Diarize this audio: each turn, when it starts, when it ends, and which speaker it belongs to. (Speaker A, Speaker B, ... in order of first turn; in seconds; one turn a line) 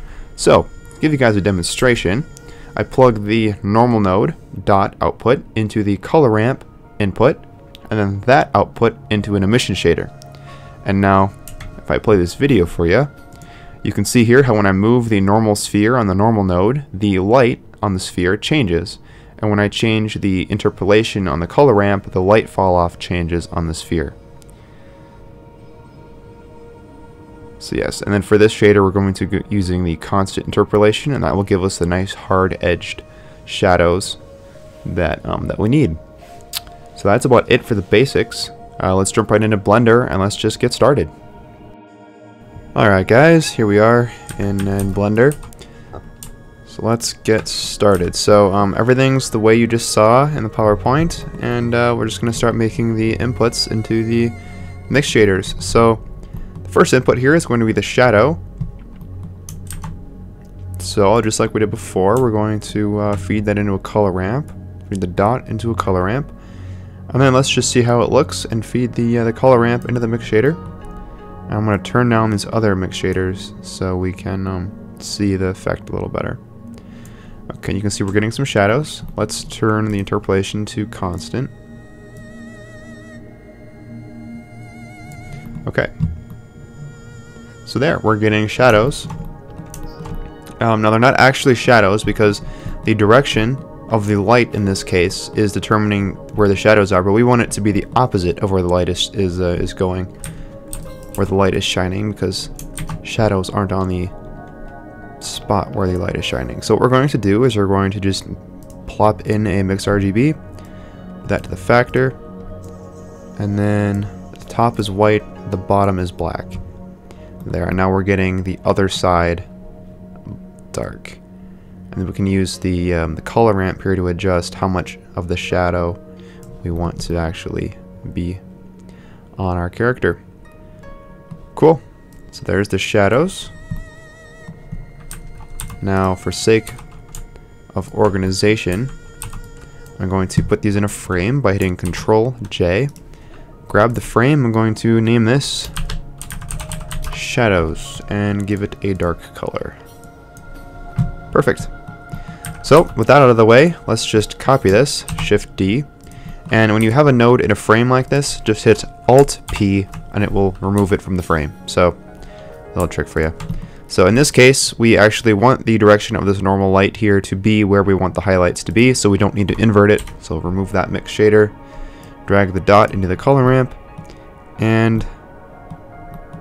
Speaker A: 0.4-10.1
Speaker A: 10.8-13.1
Speaker A: 13.8-24.2
Speaker A: 27.6-34.2
Speaker A: 34.8-36.0
Speaker A: 36.9-41.1
Speaker A: 42.8-45.4
Speaker A: 46.7-54.4
Speaker A: 54.9-56.0
Speaker A: 56.6-58.4
Speaker A: 60.8-66.3
Speaker A: 67.1-70.6
Speaker A: 71.5-76.4
Speaker A: 77.5-81.5
Speaker A: 85.7-85.9
Speaker A: 87.7-89.1
Speaker A: 90.6-100.1
Speaker A: 101.2-102.5
Speaker A: 103.0-104.1
Speaker A: 105.2-110.4
Speaker A: 111.2-112.2
Speaker A: 113.4-116.6
Speaker A: 117.4-119.5
Speaker A: 120.3-121.2
Speaker A: 121.9-126.0
Speaker A: 126.6-128.4
Speaker A: 129.4-130.2
Speaker A: 131.6-133.5
Speaker A: 135.8-136.8
Speaker A: 137.7-138.9
Speaker A: 140.0-142.9
Speaker A: 143.7-145.7
Speaker A: 147.1-149.8
Speaker A: 151.3-151.7
Speaker A: 152.6-155.9
Speaker A: 156.5-162.0
Speaker A: 162.7-163.3
Speaker A: 163.9-171.5
Speaker A: 172.3-173.8
Speaker A: 174.6-175.1